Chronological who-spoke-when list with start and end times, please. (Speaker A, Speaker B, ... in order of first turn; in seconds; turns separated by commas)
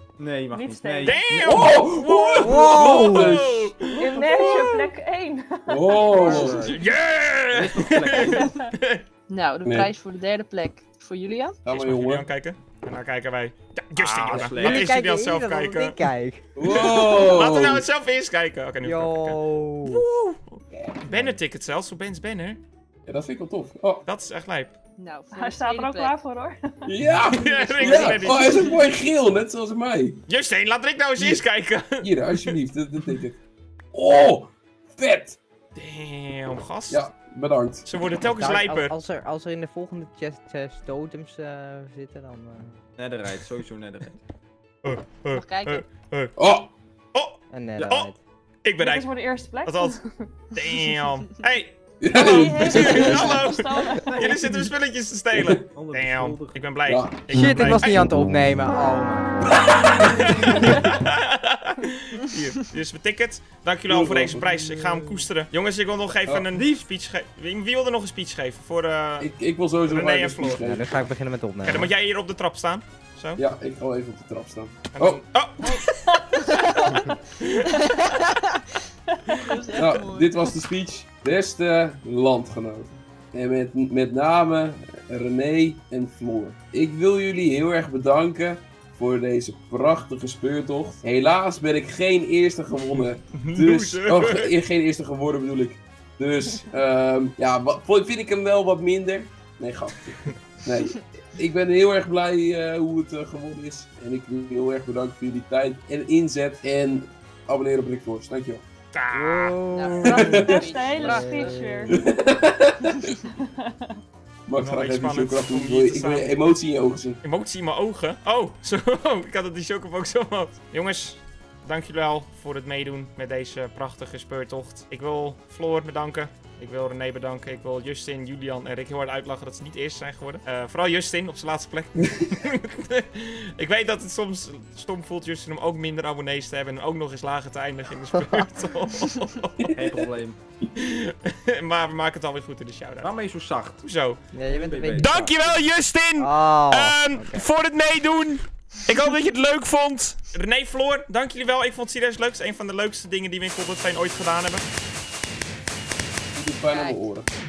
Speaker A: 0.2-1.8, Speaker B: 0.5-1.2, Speaker C: 1.0-3.9, Speaker D: 1.5-3.7, Speaker E: 2.4-3.4, Speaker B: 4.0-6.7, Speaker D: 5.7-6.7, Speaker A: 6.1-6.8, Speaker C: 6.6-9.0, Speaker A: 7.5-8.5, Speaker F: 9.3-11.6, Speaker D: 9.6-9.9, Speaker D: 11.7-12.3, Speaker C: 11.7-16.0, Speaker A: 14.0-14.9, Speaker E: 14.4-16.4, Speaker D: 16.6-17.8, Speaker C: 16.6-22.6, Speaker E: 18.8-20.0, Speaker E: 20.8-21.4, Speaker D: 23.1-24.0, Speaker C: 24.1-24.7, Speaker F: 25.0-26.1, Speaker B: 25.3-26.7, Speaker D: 26.9-30.2, Speaker C: 27.3-28.6, Speaker F: 27.5-28.6, Speaker C: 30.3-32.5, Speaker D: 31.2-31.5, Speaker D: 32.0-33.4, Speaker D: 33.9-35.4, Speaker C: 35.8-37.1, Speaker D: 36.9-37.8, Speaker C: 37.9-38.9, Speaker E: 38.2-42.8, Speaker A: 43.0-44.2, Speaker C: 44.8-46.3, Speaker F: 45.3-45.9, Speaker D: 46.4-46.7, Speaker C: 47.1-48.1, Speaker E: 47.5-48.2, Speaker C: 48.6-49.1, Speaker B: 48.8-50.8, Speaker C: 49.6-50.0, Speaker C: 50.5-58.0, Speaker D: 52.0-53.5, Speaker B: 52.1-54.4, Speaker A: 54.0-54.4, Speaker D: 55.3-55.6, Speaker A: 55.7-56.7, Speaker D: 56.8-57.3, Speaker E: 57.3-59.6, Speaker C: 59.9-69.3, Speaker A: 60.2-60.9, Speaker D: 63.9-64.6, Speaker A: 64.6-65.3, Speaker A: 66.5-66.9, Speaker D: 69.2-71.0, Speaker C: 69.8-70.6, Speaker E: 70.6-71.9, Speaker C: 71.6-73.4, Speaker D: 73.4-75.2, Speaker C: 74.9-75.8, Speaker F: 76.3-77.1, Speaker B: 76.7-77.2, Speaker C: 77.4-77.8, Speaker F: 77.7-78.8, Speaker F: 79.3-80.5, Speaker D: 79.7-108.6, Speaker C: 93.3-94.5, Speaker C: 108.9-110.2, Speaker E: 109.1-112.0, Speaker F: 109.7-111.6, Speaker D: 110.1-110.7, Speaker B: 110.3-112.0, Speaker D: 111.9-113.1, Speaker B: 113.4-113.9, Speaker D: 114.5-117.2, Speaker C: 114.6-116.3, Speaker C: 117.2-139.6, Speaker D: 139.6-140.0, Speaker A: 139.7-140.4, Speaker C: 140.8-143.1, Speaker A: 143.0-143.8, Speaker C: 143.8-144.2, Speaker E: 144.3-147.5, Speaker A: 144.5-145.2, Speaker C: 145.0-154.7, Speaker D: 156.3-157.3, Speaker F: 156.7-157.1